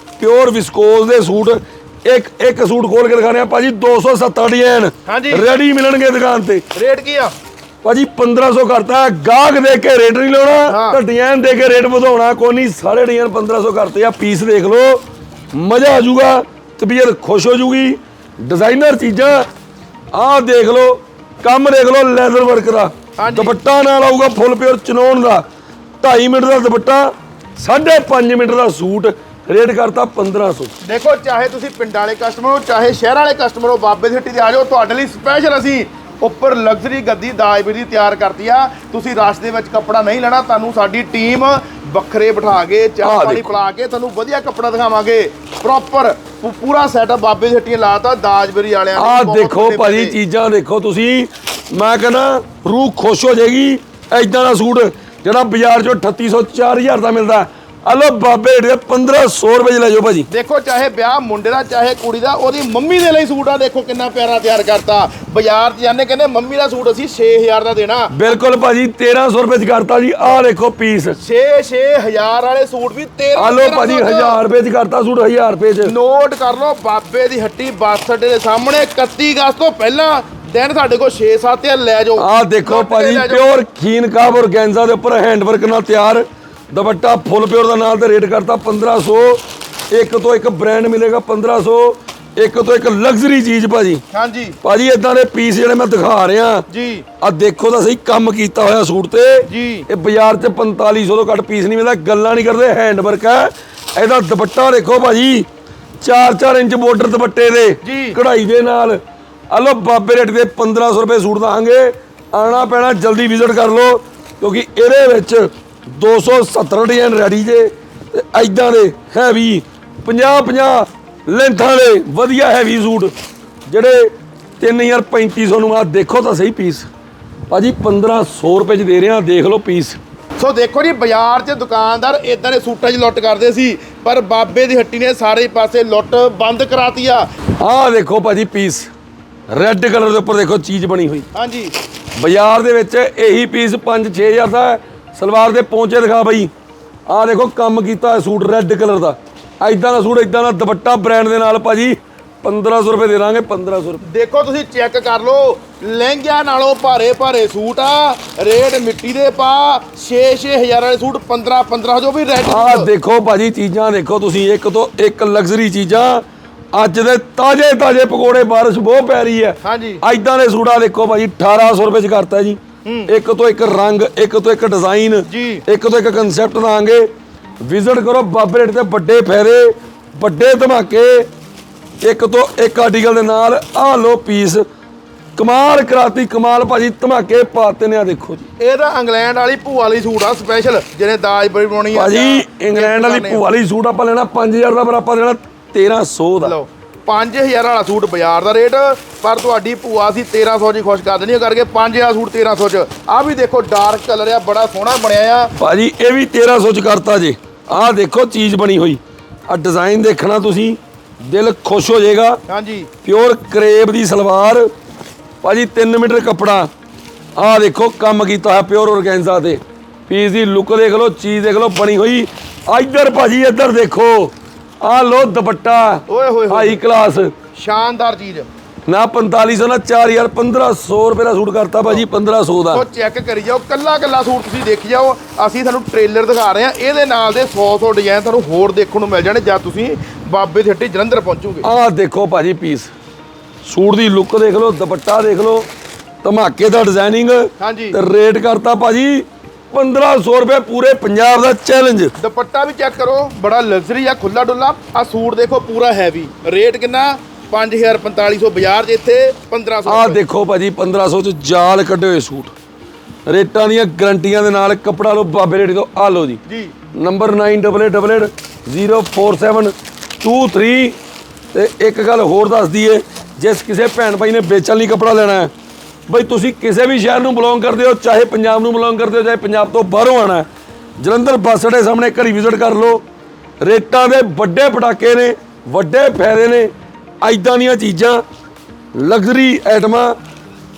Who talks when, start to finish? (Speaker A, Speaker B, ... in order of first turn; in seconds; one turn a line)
Speaker A: 0.2-6.6
Speaker B: 5.1-5.4
Speaker B: 6.8-7.3
Speaker A: 7.8-15.0
Speaker B: 10.7-11.0
Speaker A: 15.5-19.4
Speaker A: 20.1-25.4
Speaker B: 23.2-23.6
Speaker A: 26.0-30.7
Speaker B: 30.9-50.2
Speaker A: 43.0-43.5
Speaker A: 49.0-60.3
Speaker B: 60.3-68.1
Speaker A: 68.1-71.2
Speaker B: 71.2-74.4
Speaker A: 73.4-75.9
Speaker B: 75.8-83.6
Speaker A: 82.2-94.0
Speaker B: 94.1-94.6
Speaker A: 94.6-96.7
Speaker B: 96.7-97.0
Speaker A: 97.2-105.5
Speaker B: 99.5-99.9
Speaker A: 106.0-123.1
Speaker B: 107.8-108.2
Speaker A: 123.7-126.9
Speaker A: 127.5-130.0
Speaker B: 130.4-137.3
Speaker A: 137.6-138.9
Speaker A: 139.5-141.2
Speaker B: 141.3-141.7
Speaker A: 142.2-146.5
Speaker A: 147.1-154.0
Speaker B: 154.0-162.9
Speaker A: 162.5-177.1
Speaker B: 169.6-170.0
Speaker B: 172.8-173.1
Speaker B: 175.3-175.6
Speaker A: 177.6-181.3
Speaker A: 182.0-184.6
Speaker A: 185.4-188.5
Speaker B: 188.6-193.4
Speaker A: 191.9-196.5
Speaker B: 196.4-205.5
Speaker A: 205.6-212.4
Speaker B: 212.5-212.9
Speaker A: 213.0-214.7
Speaker A: 215.4-216.7
Speaker A: 217.4-227.3
Speaker B: 226.1-226.8
Speaker B: 227.5-228.5
Speaker A: 228.9-232.8
Speaker B: 232.7-241.7
Speaker A: 241.6-242.9
Speaker A: 243.6-245.7
Speaker A: 246.2-252.1
Speaker B: 247.6-248.0
Speaker B: 252.2-260.2
Speaker A: 259.9-262.5
Speaker A: 263.3-266.4
Speaker B: 266.5-266.7
Speaker A: 266.9-271.0
Speaker A: 271.5-275.5
Speaker A: 276.1-280.5
Speaker A: 281.0-283.0
Speaker A: 283.6-286.7
Speaker A: 287.2-288.2
Speaker A: 288.9-290.1